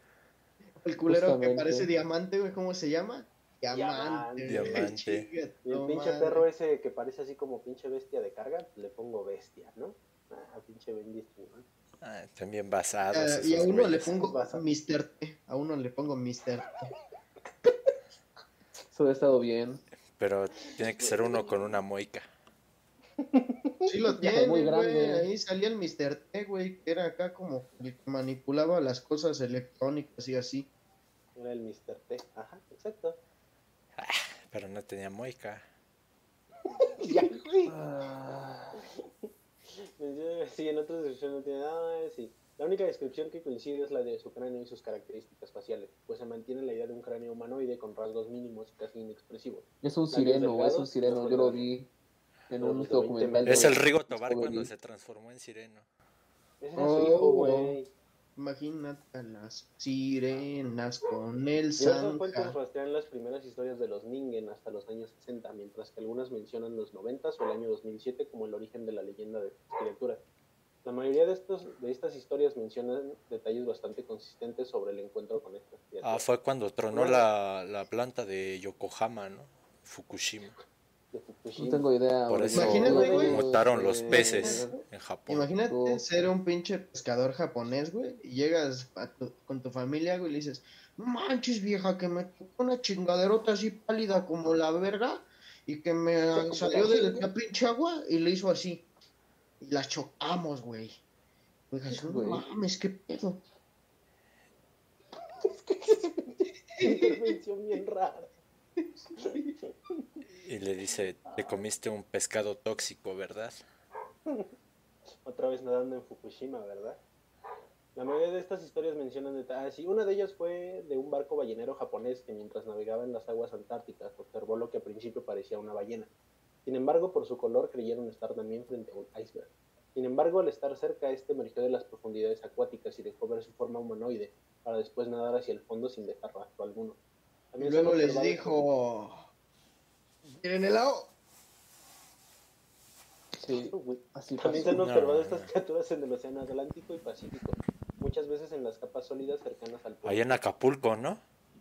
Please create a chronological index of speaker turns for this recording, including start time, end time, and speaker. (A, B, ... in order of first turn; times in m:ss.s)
0:00.8-0:06.4 A
0:01.1-0:01.9 B
0:03.7-0:04.9 C
0:04.4-0:05.2 D
0:05.6-0:11.6 C
0:12.0-0:14.1 D
0:13.1-0:16.9 A
0:14.1-0:14.6 C
0:18.9-0:19.8 B
0:20.1-0:22.3 D
0:20.7-0:21.8 C
0:23.2-0:23.9 C
0:23.9-0:30.7 A
0:24.2-0:25.3 B
0:31.4-0:33.2 C
0:34.0-0:35.6 D
0:36.8-0:37.7 C
0:37.6-0:38.8 B
0:38.8-0:51.6 C
0:49.8-0:51.9 B
0:52.5-0:54.7 B
0:52.6-0:53.8 C
0:53.4-0:55.8 D
0:56.6-0:57.9 C
0:56.8-0:57.8 A
0:58.4-1:02.5 A
1:01.8-1:10.2 C
1:10.8-1:16.2 C
1:16.0-1:20.6 D
1:16.9-1:17.2 C
1:21.1-1:21.8 C
1:21.6-1:24.7 B
1:22.3-1:25.5 D
1:22.5-1:23.4 A
1:22.9-1:23.2 C
1:24.1-1:38.8 A
1:25.7-1:26.0 B
1:36.6-1:37.0 C
1:36.7-1:37.2 B
1:39.6-1:41.0 A
1:41.7-1:43.4 A
1:41.9-1:42.4 B
1:45.4-1:48.3 C
1:46.8-1:47.2 A
1:48.8-1:49.5 A
1:49.2-1:50.2 C
1:50.4-1:53.6 D
1:51.3-1:51.6 C
1:55.2-1:57.0 C
1:57.9-2:06.1 C
2:06.6-2:17.0 C
2:17.5-2:18.6 C
2:17.6-2:19.2 A
2:20.2-2:21.1 A
2:23.4-2:24.8 B
2:23.5-2:30.4 C
2:24.7-2:25.5 D
2:30.0-2:31.2 D